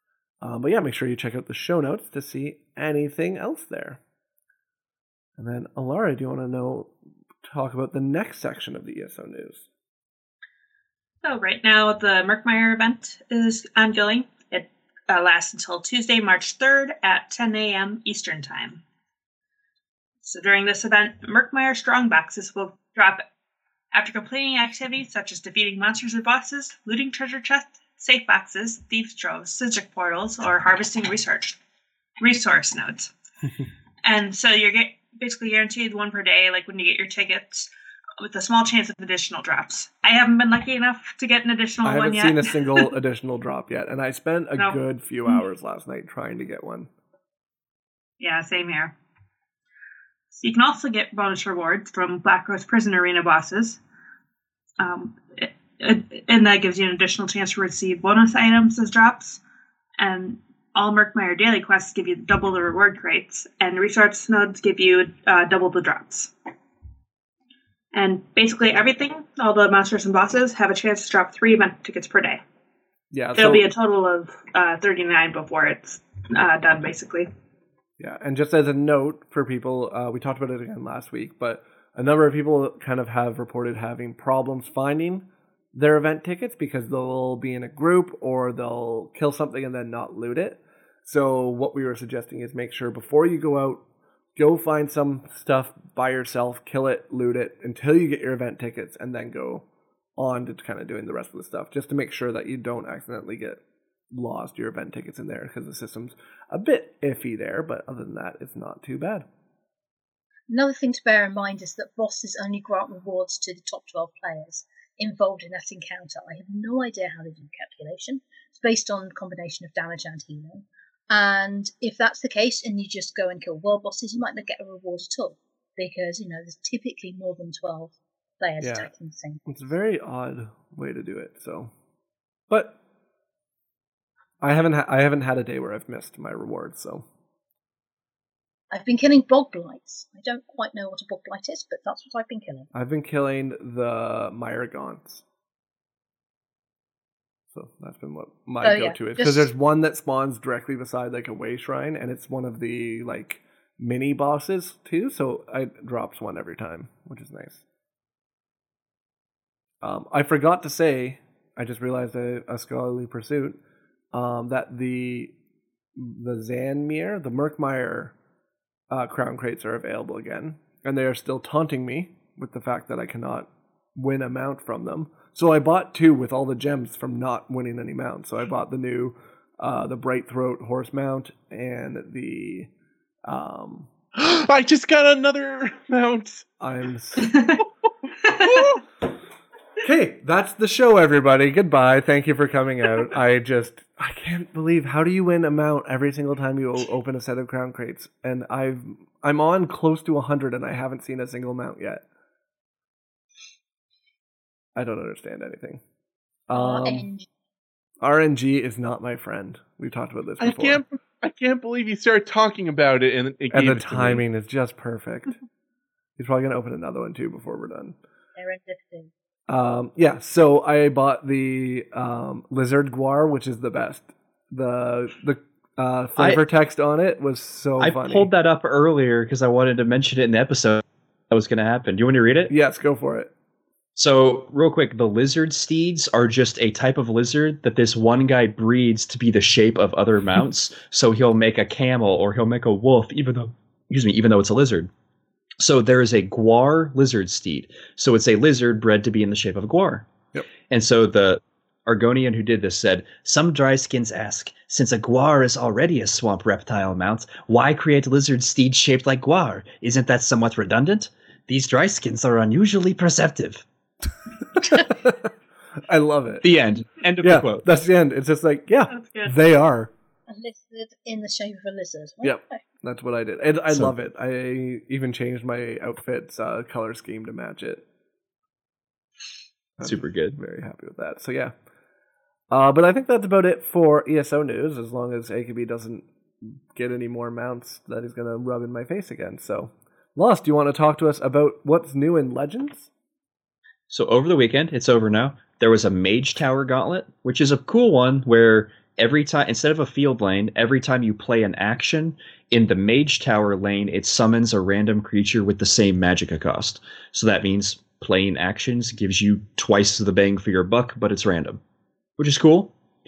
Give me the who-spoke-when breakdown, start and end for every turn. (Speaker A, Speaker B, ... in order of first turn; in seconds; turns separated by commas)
Speaker A: 0.4-4.0, Speaker A: 5.4-6.9, Speaker A: 7.4-9.6, Speaker B: 11.2-18.8, Speaker B: 20.2-23.2, Speaker B: 23.9-31.6, Speaker B: 32.2-33.1, Speaker B: 34.0-37.7, Speaker B: 38.2-42.9, Speaker A: 41.8-46.9, Speaker B: 44.6-45.4, Speaker B: 48.2-48.9, Speaker B: 50.3-53.8, Speaker B: 54.8-59.4, Speaker B: 60.0-66.3, Speaker B: 67.9-72.4, Speaker A: 73.1-73.7, Speaker B: 73.3-77.3, Speaker A: 78.0-93.8, Speaker A: 94.4-99.6, Speaker A: 100.2-103.6, Speaker A: 104.1-109.2, Speaker C: 110.5-129.4, Speaker A: 128.6-128.9, Speaker A: 129.4-131.7, Speaker A: 132.5-132.8, Speaker A: 134.4-137.0, Speaker C: 138.7-142.7, Speaker A: 142.7-145.2, Speaker A: 147.5-157.6, Speaker C: 148.6-149.5, Speaker A: 159.8-163.6, Speaker A: 164.1-165.3, Speaker A: 165.9-168.1, Speaker A: 168.9-182.7, Speaker A: 183.2-183.9, Speaker D: 184.2-186.4, Speaker A: 186.6-187.3, Speaker B: 187.2-187.6, Speaker B: 188.2-188.7, Speaker A: 189.8-202.0, Speaker A: 204.8-205.8, Speaker A: 206.5-207.1, Speaker C: 206.5-207.3, Speaker A: 208.0-210.8, Speaker D: 210.4-214.2, Speaker A: 213.5-215.3, Speaker A: 216.2-217.9, Speaker C: 218.4-219.1, Speaker A: 219.5-228.3, Speaker E: 226.2-226.4, Speaker E: 227.8-232.5, Speaker A: 232.5-233.3, Speaker E: 233.9-244.9, Speaker E: 245.6-250.1, Speaker E: 250.7-263.6, Speaker A: 264.6-265.2, Speaker A: 265.9-266.5, Speaker E: 266.4-267.7, Speaker A: 267.2-269.9, Speaker B: 268.9-269.4, Speaker C: 270.3-272.6, Speaker A: 272.2-277.8, Speaker E: 273.7-273.9, Speaker A: 279.8-281.5, Speaker E: 279.8-280.4, Speaker A: 282.5-292.9, Speaker E: 293.9-311.6, Speaker E: 312.2-312.7